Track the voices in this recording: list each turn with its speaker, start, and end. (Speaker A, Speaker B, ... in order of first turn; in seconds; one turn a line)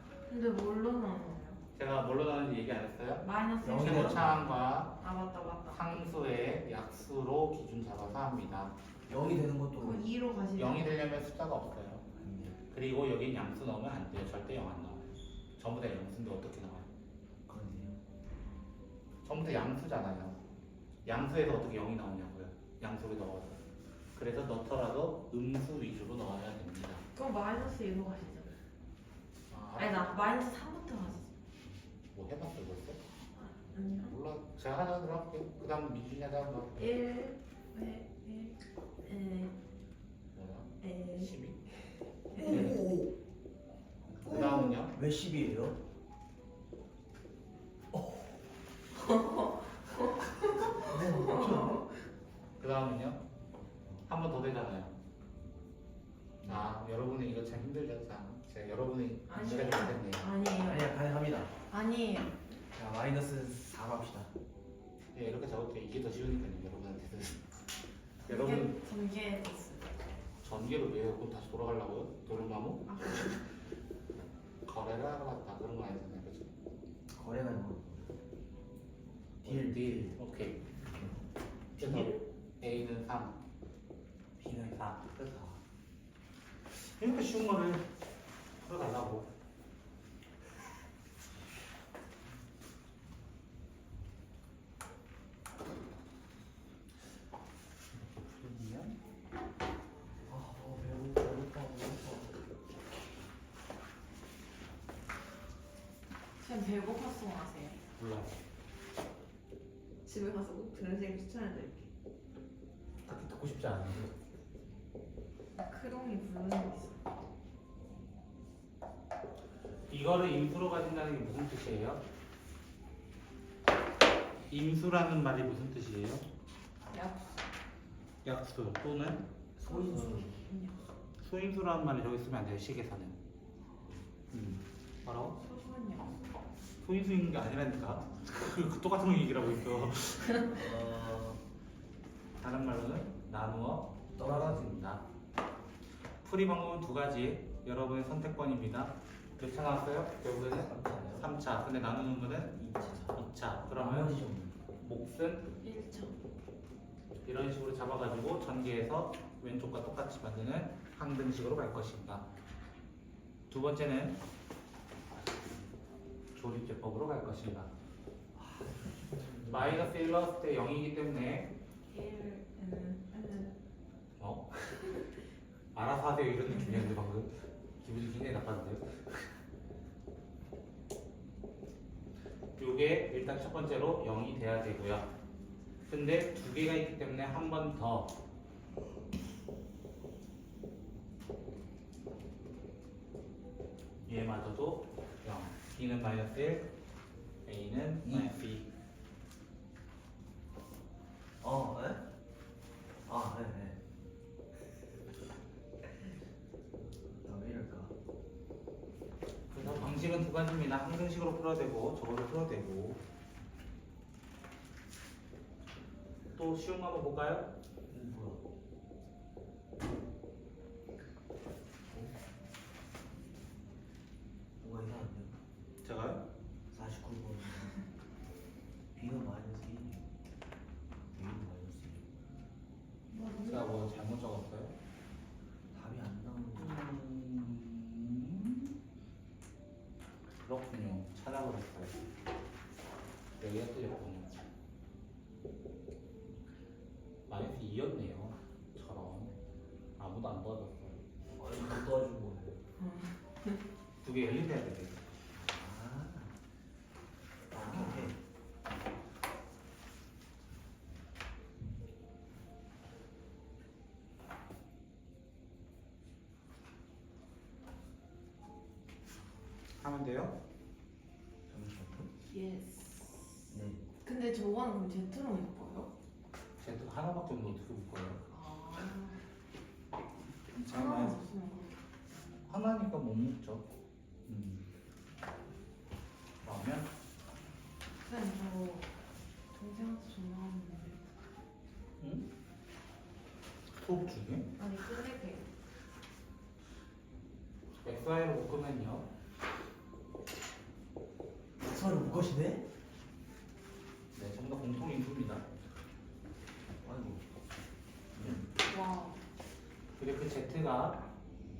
Speaker A: 0.3-1.6
Speaker B: 1.7-5.0
Speaker A: 3.2-4.2
Speaker C: 3.6-4.5
Speaker A: 5.0-5.9
Speaker B: 5.7-8.7
Speaker C: 9.1-10.1
Speaker A: 9.8-10.9
Speaker B: 10.6-12.0
Speaker C: 12.2-12.6
Speaker B: 12.7-16.9
Speaker C: 17.5-18.0
Speaker B: 19.2-20.4
Speaker B: 21.0-23.6
Speaker B: 24.1-27.0
Speaker A: 27.1-28.6
Speaker B: 29.5-30.4
Speaker A: 29.8-31.3
Speaker B: 32.1-33.0
Speaker A: 33.3-34.1
Speaker B: 34.0-36.9
Speaker A: 36.8-39.5
Speaker B: 40.3-41.6
Speaker A: 40.8-43.0
Speaker B: 42.4-42.9
Speaker C: 42.4-42.9
Speaker C: 44.0-45.8
Speaker B: 44.2-44.9
Speaker C: 47.9-48.4
Speaker A: 49.0-51.9
Speaker C: 50.6-51.9
Speaker B: 52.6-53.2
Speaker B: 54.0-54.9
Speaker C: 56.4-56.7
Speaker B: 56.4-60.2
Speaker A: 59.3-60.9
Speaker C: 60.6-61.5
Speaker A: 61.7-62.4
Speaker C: 62.7-64.3
Speaker B: 65.1-67.4
Speaker B: 68.2-68.8
Speaker A: 68.2-69.9
Speaker B: 70.4-73.3
Speaker A: 72.9-73.4
Speaker B: 74.7-76.5
Speaker C: 77.1-78.1
Speaker B: 79.4-80.6
Speaker C: 79.4-80.2
Speaker C: 80.9-81.2
Speaker C: 81.8-82.1
Speaker B: 81.8-83.4
Speaker B: 84.4-85.6
Speaker B: 86.7-87.9
Speaker B: 88.6-89.3
Speaker B: 97.9-99.0
Speaker C: 100.3-102.3
Speaker A: 106.4-107.8
Speaker B: 108.0-108.3
Speaker A: 110.0-111.9
Speaker B: 113.0-114.1
Speaker A: 115.6-117.0
Speaker B: 119.9-122.0
Speaker B: 124.5-126.2
Speaker A: 126.9-127.3
Speaker B: 128.2-129.2
Speaker C: 129.6-130.4
Speaker A: 129.6-130.9
Speaker B: 131.2-133.2
Speaker B: 134.3-135.4
Speaker A: 135.3-136.2
Speaker B: 136.8-140.5
Speaker C: 140.4-141.4
Speaker B: 142.4-145.0
Speaker C: 144.2-144.8
Speaker B: 146.2-152.6
Speaker C: 150.4-151.3
Speaker C: 152.5-154.6
Speaker B: 153.1-154.2
Speaker B: 154.8-155.5
Speaker A: 155.6-156.2
Speaker B: 157.2-162.2
Speaker B: 163.5-164.2
Speaker B: 166.3-167.7
Speaker C: 168.3-169.9
Speaker B: 169.5-171.5
Speaker A: 171.9-173.6
Speaker B: 174.2-174.7
Speaker B: 175.7-177.3
Speaker B: 177.8-179.3
Speaker B: 182.6-185.1
Speaker B: 185.9-188.1
Speaker B: 194.1-196.7
Speaker B: 197.4-198.7
Speaker C: 198.0-198.3
Speaker C: 201.4-202.0
Speaker C: 203.1-203.8
Speaker C: 207.2-207.9
Speaker B: 209.5-213.0
Speaker C: 209.6-210.0
Speaker B: 216.3-217.5
Speaker C: 217.9-218.4
Speaker C: 221.9-222.2
Speaker C: 224.6-225.3
Speaker B: 225.8-226.2
Speaker C: 226.7-227.8
Speaker C: 228.9-230.1
Speaker C: 231.1-232.1
Speaker A: 233.1-233.9
Speaker B: 233.4-234.8
Speaker C: 235.7-236.8
Speaker B: 236.5-238.8
Speaker B: 240.4-242.1
Speaker B: 243.4-244.4
Speaker B: 247.3-249.3
Speaker B: 250.0-251.0
Speaker C: 251.4-252.6
Speaker A: 252.8-253.6
Speaker B: 254.0-255.0
Speaker C: 255.3-256.3
Speaker C: 257.5-258.2
Speaker B: 257.6-258.1
Speaker B: 269.8-270.3
Speaker C: 271.5-272.1
Speaker A: 272.3-273.5
Speaker C: 273.5-273.9
Speaker A: 274.0-275.9
Speaker B: 276.6-278.2
Speaker A: 278.3-279.2
Speaker B: 280.5-281.2
Speaker A: 280.7-281.8
Speaker B: 282.4-283.7
Speaker B: 284.2-284.7
Speaker B: 286.4-286.9
Speaker A: 288.0-288.9
Speaker A: 289.5-291.0
Speaker B: 292.0-292.3
Speaker B: 293.7-294.5
Speaker A: 294.6-295.5
Speaker B: 297.8-299.1
Speaker C: 301.6-302.7
Speaker B: 304.1-305.4
Speaker C: 306.8-307.3
Speaker C: 308.1-308.5
Speaker A: 308.6-309.2
Speaker B: 310.0-311.0